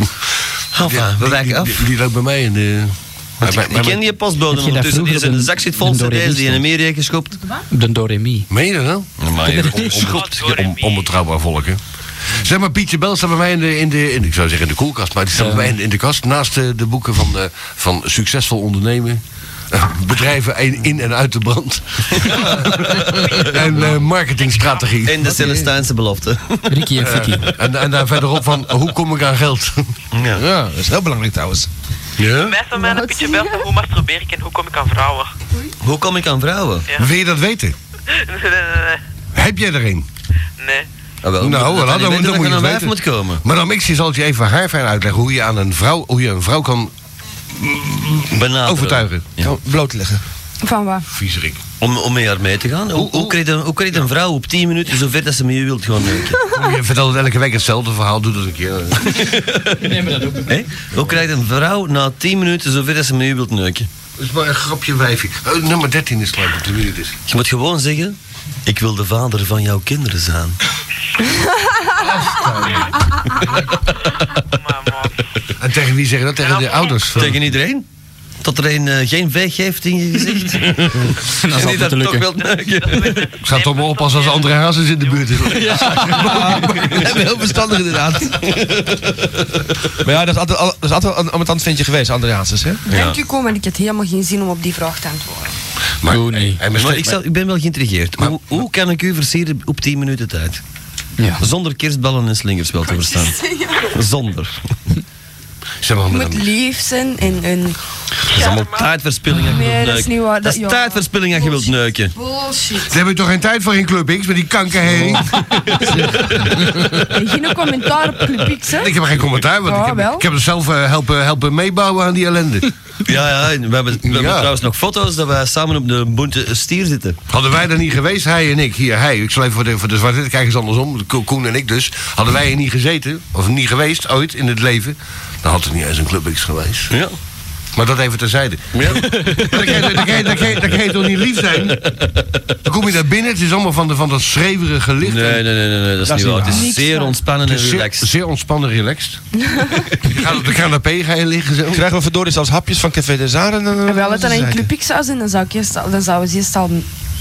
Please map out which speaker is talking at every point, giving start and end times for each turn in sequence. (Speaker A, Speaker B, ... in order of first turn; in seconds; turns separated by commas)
Speaker A: 0.7-1.9, Speaker B: 0.8-4.1, Speaker A: 3.4-7.4, Speaker C: 4.5-6.6, Speaker D: 7.4-7.6, Speaker C: 7.7-8.5, Speaker B: 8.5-11.8, Speaker A: 9.2-10.4, Speaker C: 9.5-10.0, Speaker E: 9.9-11.1, Speaker B: 12.3-19.2, Speaker C: 15.3-15.7, Speaker B: 19.7-25.4, Speaker A: 22.2-23.9, Speaker E: 23.1-25.0, Speaker A: 25.0-27.0, Speaker F: 25.2-25.7, Speaker C: 26.7-27.5, Speaker B: 26.9-29.9, Speaker A: 30.1-30.4, Speaker F: 30.3-31.7, Speaker B: 32.2-32.6, Speaker E: 32.4-35.3, Speaker D: 32.8-33.6, Speaker A: 35.8-36.9, Speaker B: 36.9-37.8, Speaker E: 38.1-39.0, Speaker B: 39.3-40.0, Speaker E: 40.6-40.9, Speaker A: 41.2-43.4, Speaker B: 41.4-46.9, Speaker B: 47.5-49.3, Speaker A: 48.3-49.5, Speaker F: 49.4-50.2, Speaker D: 50.6-51.0, Speaker B: 51.1-51.6, Speaker A: 51.8-56.4, Speaker B: 52.9-53.4, Speaker B: 56.4-59.3, Speaker A: 59.0-63.9, Speaker C: 59.7-60.5, Speaker B: 64.2-67.2, Speaker A: 67.3-70.6, Speaker D: 71.3-71.9, Speaker B: 72.0-73.6, Speaker E: 74.5-75.2, Speaker B: 75.6-77.5, Speaker E: 76.4-77.2, Speaker A: 77.1-77.9, Speaker A: 78.4-83.3, Speaker B: 80.7-81.1, Speaker C: 81.3-82.3, Speaker E: 82.4-85.8, Speaker B: 83.4-87.0, Speaker C: 85.6-86.4, Speaker A: 85.8-89.3, Speaker F: 86.2-88.5, Speaker F: 90.0-92.8, Speaker D: 92.8-95.5, Speaker A: 92.9-93.2, Speaker B: 96.0-97.2, Speaker C: 96.1-96.6, Speaker A: 96.7-100.6, Speaker B: 98.2-98.5, Speaker C: 101.2-101.4, Speaker A: 101.4-104.7, Speaker D: 103.0-103.9, Speaker B: 105.8-106.5, Speaker D: 106.1-107.8, Speaker A: 108.3-112.1, Speaker E: 108.3-108.9, Speaker D: 109.3-112.9, Speaker B: 112.9-117.1, Speaker F: 114.9-116.5, Speaker D: 117.1-119.0, Speaker B: 118.6-122.7, Speaker D: 119.6-120.3, Speaker A: 123.0-127.2, Speaker B: 124.0-124.5, Speaker B: 127.3-136.9, Speaker A: 136.9-137.2, Speaker B: 137.7-141.8, Speaker A: 138.7-140.6, Speaker A: 141.3-142.5, Speaker B: 142.6-145.4, Speaker A: 145.0-148.1, Speaker F: 146.0-146.6, Speaker D: 146.5-147.2, Speaker B: 147.4-151.8, Speaker D: 149.4-149.8, Speaker F: 151.7-154.7, Speaker D: 153.8-156.8